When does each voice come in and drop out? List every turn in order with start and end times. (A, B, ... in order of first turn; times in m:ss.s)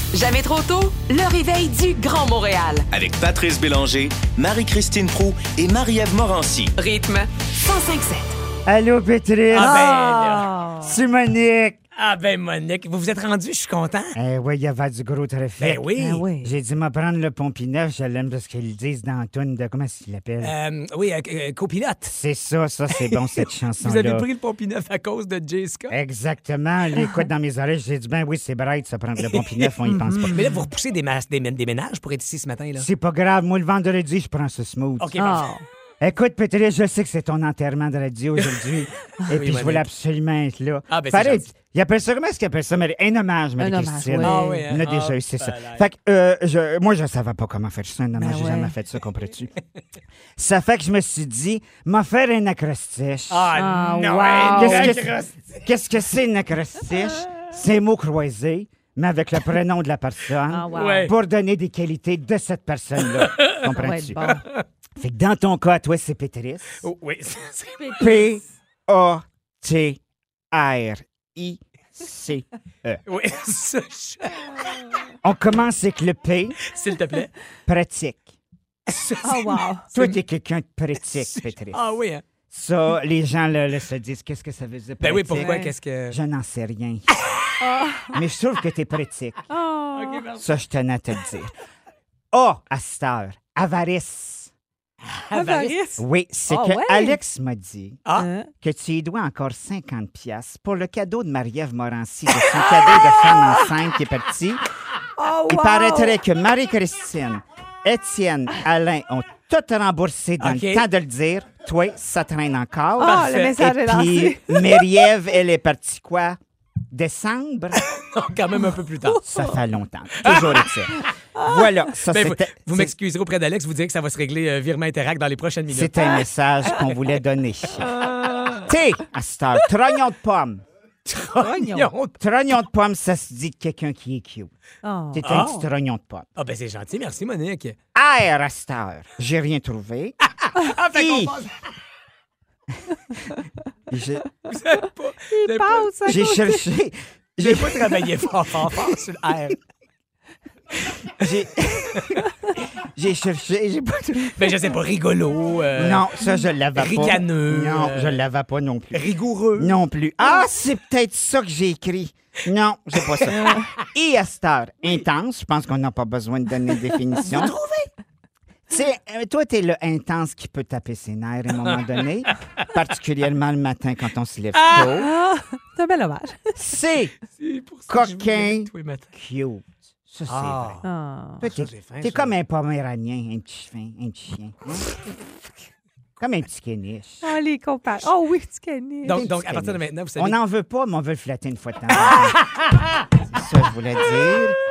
0:00.1-0:02.9 A
0:02.9-0:06.7 B
0:06.8-0:08.3 A
0:08.6-0:10.0 C
0:09.5-0:10.5 D
0:09.6-0:10.9 E
0:10.8-0:11.8 C
0:12.0-0:14.2 D
0:14.2-0:20.6 C
0:15.6-0:16.2 D
0:16.0-0:16.5 E
0:20.4-0:22.1 D
0:22.1-0:24.3 C
0:23.4-0:25.9 D
0:25.9-0:30.5 C
0:29.9-0:30.4 E
0:30.3-0:32.9 D
0:32.8-0:35.1 C
0:35.0-0:35.5 D
0:35.2-0:35.6 E
0:36.0-0:49.5 C
0:39.3-0:39.8 D
0:40.9-0:41.5 D
0:43.6-0:44.6 E
0:44.2-0:45.8 D
0:48.2-0:48.7 E
0:50.4-0:53.6 C
0:53.3-0:55.4 D
0:53.6-0:55.0 E
0:54.4-1:04.4 C
1:00.5-1:01.1 E
1:00.7-1:01.1 D
1:03.8-1:04.4 E
1:05.0-1:06.8 C
1:06.8-1:08.2 D
1:07.8-1:08.2 E
1:08.0-1:10.0 C
1:10.5-1:13.0 C
1:13.1-1:14.4 D
1:15.2-1:16.6 C
1:16.7-1:17.3 D
1:17.7-1:18.4 C
1:18.9-1:19.7 D
1:19.2-1:20.1 E
1:19.9-1:21.8 C
1:21.2-1:22.2 D
1:22.5-1:27.1 C
1:25.0-1:26.2 D
1:25.4-1:25.7 E
1:27.6-1:28.2 E
1:28.1-1:29.4 C
1:29.5-1:30.2 E
1:29.9-1:30.4 D
1:30.4-1:31.5 C
1:32.3-1:34.5 C
1:35.3-1:35.8 D
1:35.3-1:37.2 E
1:36.0-1:38.0 C
1:38.2-1:38.5 E
1:38.6-1:44.6 C
1:43.3-1:43.6 E
1:45.2-1:46.2 E
1:45.5-1:56.4 C
1:50.4-1:50.9 D
1:53.0-1:54.8 E
1:53.1-1:53.5 D
1:56.9-1:57.8 C
1:58.1-1:59.2 D
1:59.2-2:02.9 C
2:00.2-2:00.6 D
2:02.1-2:06.2 D
2:05.7-2:07.9 C
2:08.7-2:10.6 C
2:11.1-2:12.2 D
2:11.4-2:11.9 E
2:12.2-2:14.5 C
2:14.8-2:15.6 E
2:15.1-2:16.3 C
2:15.2-2:15.6 D
2:16.4-2:17.8 D
2:18.0-2:20.2 C
2:20.4-2:21.5 D
2:20.9-2:21.5 C
2:23.9-2:24.2 C
2:24.5-2:26.1 D
2:25.3-2:26.6 E
2:26.1-2:28.1 C
2:27.4-2:29.6 D
2:31.2-2:32.1 C
2:33.0-2:34.5 C
2:34.4-2:36.1 D
2:35.8-2:47.6 C
2:36.8-2:38.2 D
2:38.9-2:39.8 D
2:43.4-2:43.6 E
2:47.2-2:47.6 D
2:48.7-2:55.1 C
2:54.6-2:54.9 D
2:54.9-2:56.6 E
2:56.6-2:57.1 C
2:57.4-2:59.1 D
2:57.9-3:00.8 C
3:00.3-3:00.8 D
3:00.8-3:01.4 E
3:01.4-3:04.9 C
3:01.4-3:02.4 D
3:06.2-3:07.2 C
3:07.2-3:09.2 E
3:09.1-3:10.4 D
3:09.1-3:12.4 C
3:13.3-3:14.6 C